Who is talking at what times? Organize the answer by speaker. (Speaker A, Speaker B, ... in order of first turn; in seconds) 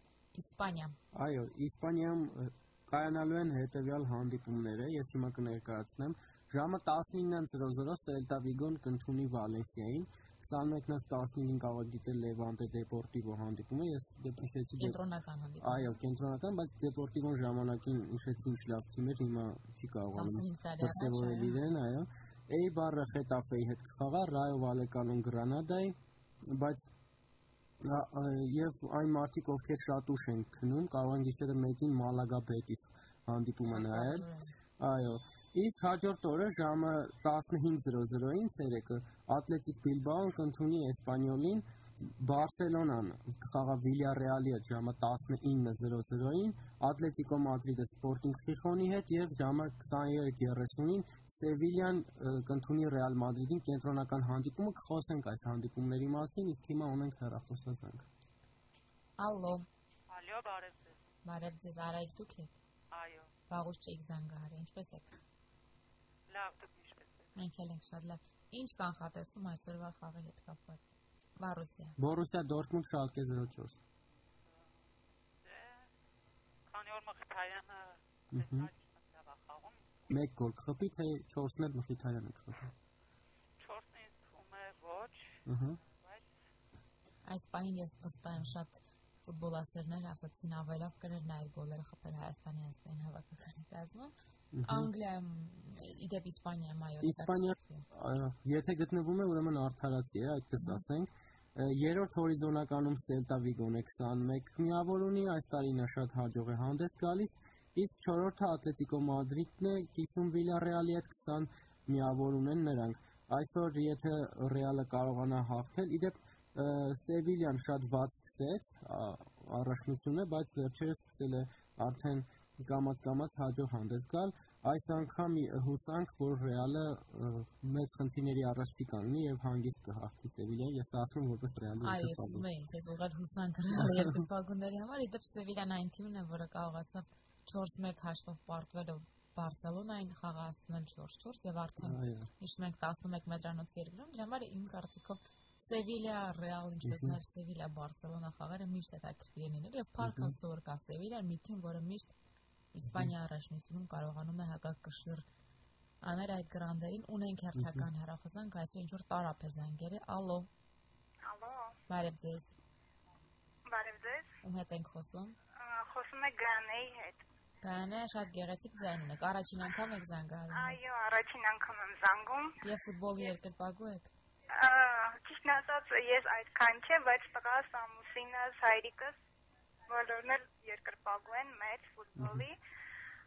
Speaker A: 0.3-0.9, 14.8-15.9, 20.1-21.6, 33.7-34.5, 59.2-59.6, 61.2-62.5, 63.5-65.1, 67.3-70.8, 71.4-72.0, 87.3-94.1, 94.6-97.8, 131.8-152.2, 152.7-155.2, 156.0-160.5, 161.9-162.5, 164.4-165.4, 167.6-170.8, 172.6-174.1
Speaker B: 1.1-15.0, 15.6-26.9, 27.8-58.1, 72.0-73.8, 78.3-78.7, 80.1-82.7, 85.5-85.8, 94.5-94.9, 97.0-132.4, 133.8-134.2, 141.8-142.3, 146.8-147.2, 150.0-150.3, 157.6-157.8, 182.2-182.4
Speaker C: 60.1-61.0, 62.9-63.3, 66.3-67.3, 74.5-74.7, 75.4-75.9, 76.7-79.9, 83.6-86.2
Speaker D: 161.2-161.8, 163.7-164.3, 165.6-167.2, 170.5-172.6, 174.5-179.2, 179.9-182.6